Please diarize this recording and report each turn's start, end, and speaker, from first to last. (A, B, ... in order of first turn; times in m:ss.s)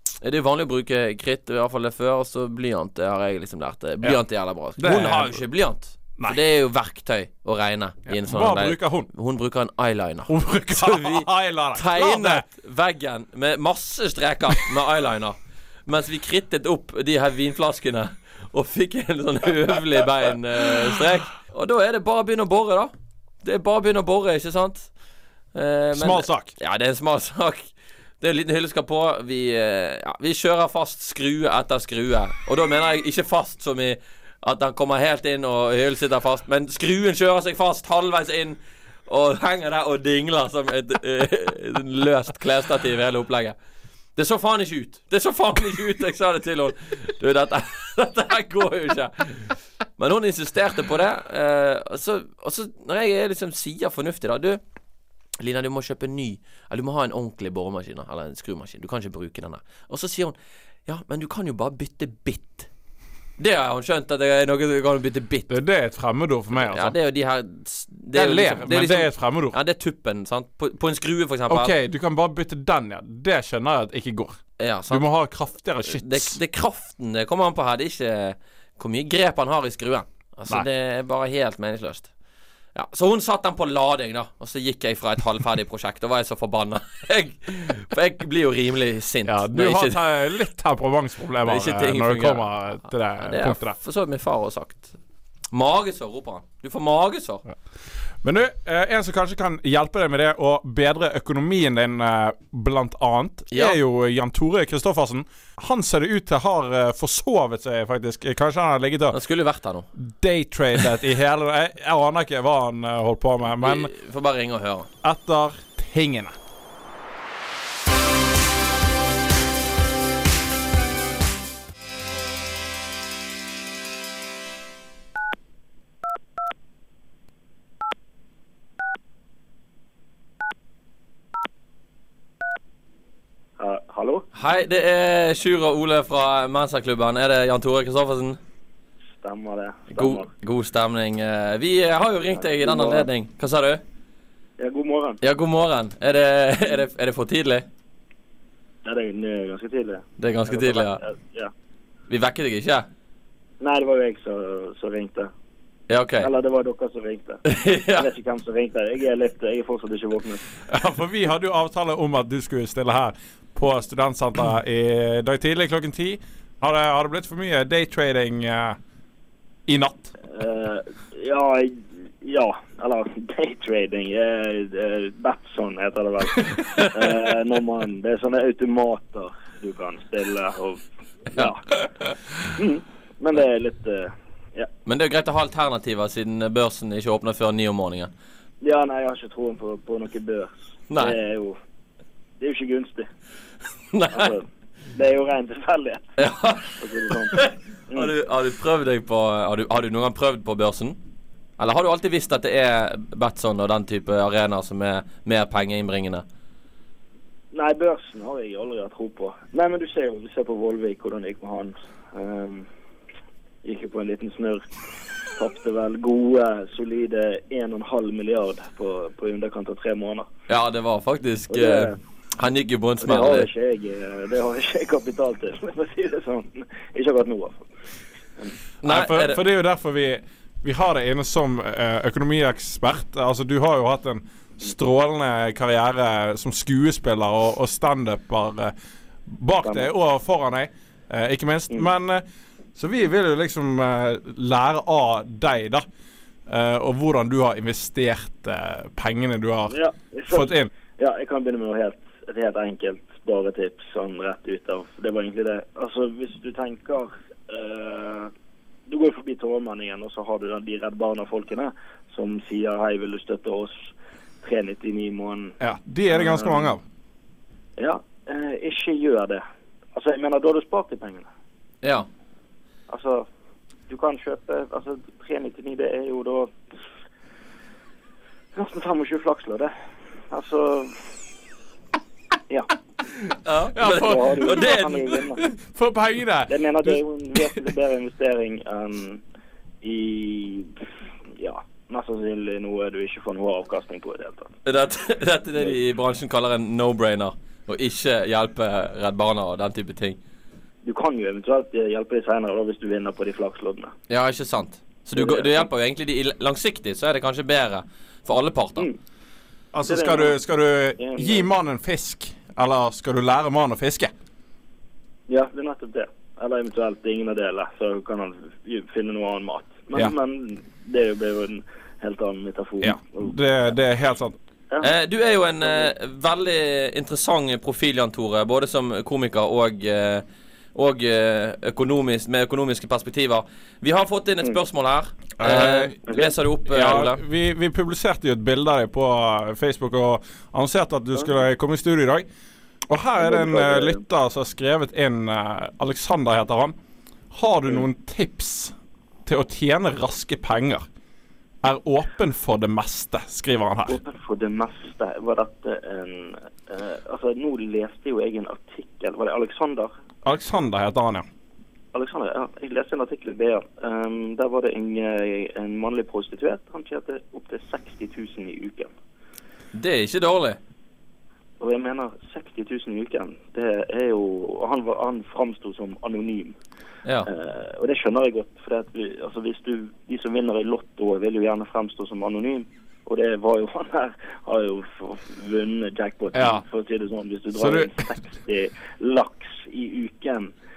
0:00.2-0:22.9 A
0:04.8-0:05.4 B
0:08.1-0:09.1 B
0:10.3-0:12.4 B
0:23.4-0:24.9 A
0:25.5-0:43.6 A
0:25.9-0:26.5 B
0:44.2-0:54.6 A
0:55.4-1:00.3 A
1:00.8-1:02.7 A
1:03.4-1:05.5 A
1:05.5-1:06.9 B
1:06.5-1:11.7 A
1:08.1-1:09.6 B
1:11.5-1:14.4 B
1:14.6-1:15.0 A
1:14.9-1:16.4 B
1:15.8-1:22.1 A
1:22.7-1:30.0 A
1:29.2-1:33.8 B
1:31.4-1:32.5 A
1:33.2-1:34.9 A
1:35.5-1:37.4 A
1:38.2-1:49.2 B
1:43.5-1:43.8 A
1:49.1-1:49.9 A
1:49.9-1:53.9 B
1:53.6-1:54.9 A
1:55.0-1:56.3 B
2:13.6-2:14.2 C
2:14.3-2:18.4 A
2:19.2-2:20.3 C
2:19.9-2:23.8 A
2:22.4-2:23.1 C
2:24.6-2:25.2 C
2:25.2-2:27.7 A
2:28.8-2:31.5 C
2:30.2-2:31.0 A
2:32.1-2:32.9 A
2:33.6-2:35.3 C
2:35.9-2:36.3 A
2:36.2-2:40.5 C
2:37.4-2:38.1 A
2:40.7-2:48.8 B
2:49.7-2:50.1 B
2:50.3-3:01.7 C
3:02.4-3:04.7 C
3:04.8-3:08.1 A
3:08.6-3:11.6 C
3:10.9-3:11.2 A
3:12.4-3:13.1 C
3:13.9-3:14.3 A
3:14.1-3:16.2 C
3:16.2-3:21.0 A
3:16.8-3:18.1 C
3:21.6-3:26.2 A
3:27.5-3:32.7 C
3:33.6-3:34.6 C
3:35.4-3:40.3 C
3:40.5-3:43.5 A
3:41.5-3:42.0 C
3:43.0-3:47.7 C
3:48.8-3:49.4 A
3:48.8-3:58.7 B
3:59.3-4:02.2 B
3:59.6-3:59.9 C
4:02.8-4:05.8 B
4:06.5-4:09.8 B
4:09.7-4:18.3 C
4:10.3-4:10.7 B
4:18.9-4:25.6 C
4:25.6-4:26.8 B
4:26.1-4:26.7 C
4:27.8-4:29.4 C
4:29.9-4:31.3 C
4:32.9-4:33.2 C
4:33.9-4:36.6 C
4:38.5-4:39.7 C
4:40.3-4:41.0 C
4:43.4-4:44.9 A
4:43.7-4:47.7 B
4:43.8-4:45.4 C
4:46.5-4:49.2 C
4:49.8-4:50.7 C
4:51.4-4:54.5 C
4:54.6-5:00.2 A
5:00.8-5:03.9 C
5:04.1-5:08.9 A
5:05.1-5:05.7 C
5:09.7-5:14.1 B
5:09.8-5:10.4 C
5:11.0-5:11.4 C
5:15.3-5:23.3 C
5:22.8-5:24.4 B
5:24.8-5:30.2 A
5:25.6-5:25.9 C
5:30.7-5:37.2 A
5:35.4-5:35.9 B
5:36.6-5:42.2 B
5:42.9-5:46.7 B
5:43.2-5:44.0 C
5:47.3-5:48.7 B
5:49.2-5:50.8 B
5:51.6-5:54.0 B
5:53.9-5:59.9 C
6:00.2-6:01.2 B
6:01.9-6:08.9 C
6:09.7-6:10.6 A
6:11.6-6:16.6 C
6:17.3-6:30.5 C
6:26.3-6:26.6 B
6:27.6-6:28.0 B